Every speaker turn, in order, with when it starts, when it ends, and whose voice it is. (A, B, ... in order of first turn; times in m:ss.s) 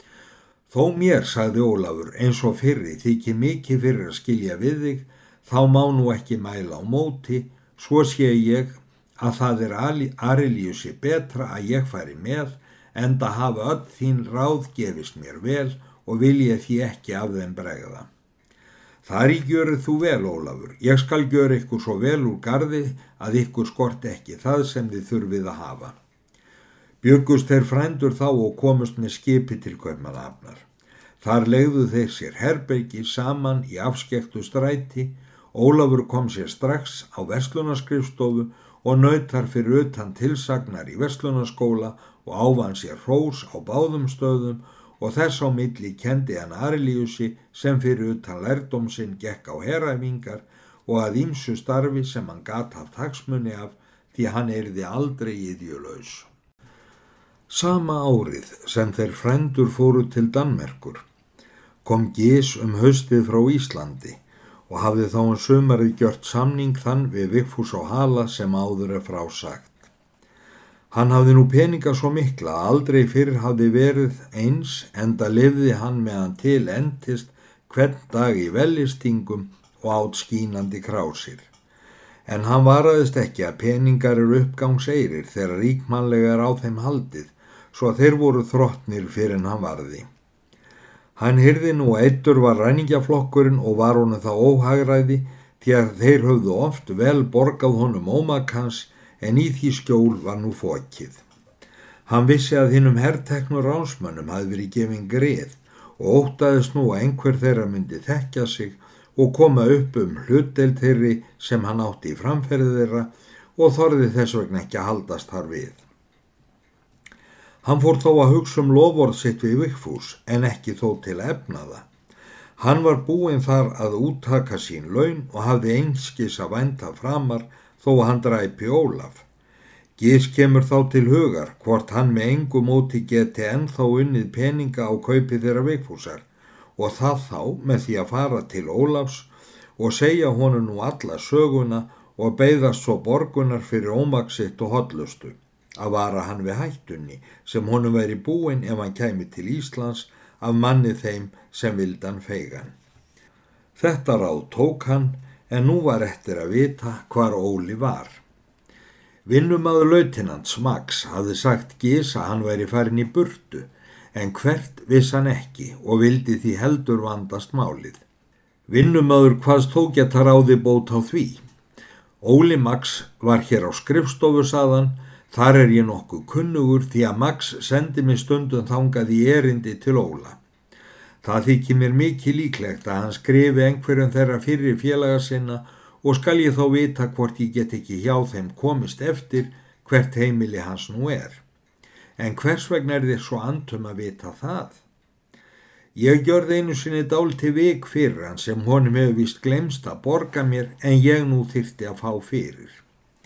0:00.7-0:18.1 A
0:19.0-0:26.0 A
0:27.0-0:30.6 A
0:31.2-0:56.3 A
0:57.5-1:01.0 A
1:01.8-1:09.7 A
1:10.9-1:21.5 A
1:22.3-1:30.1 A
1:31.2-1:41.2 A
1:42.1-1:55.8 A
1:57.6-2:01.9 A
2:02.6-2:09.3 A
2:10.0-2:16.3 A
2:16.8-2:32.7 A
2:33.8-2:38.2 A
2:39.3-2:48.0 A
2:48.7-2:51.4 A
2:52.2-3:00.4 A
3:01.2-3:11.4 A
3:12.2-3:14.8 A
3:16.0-3:22.8 A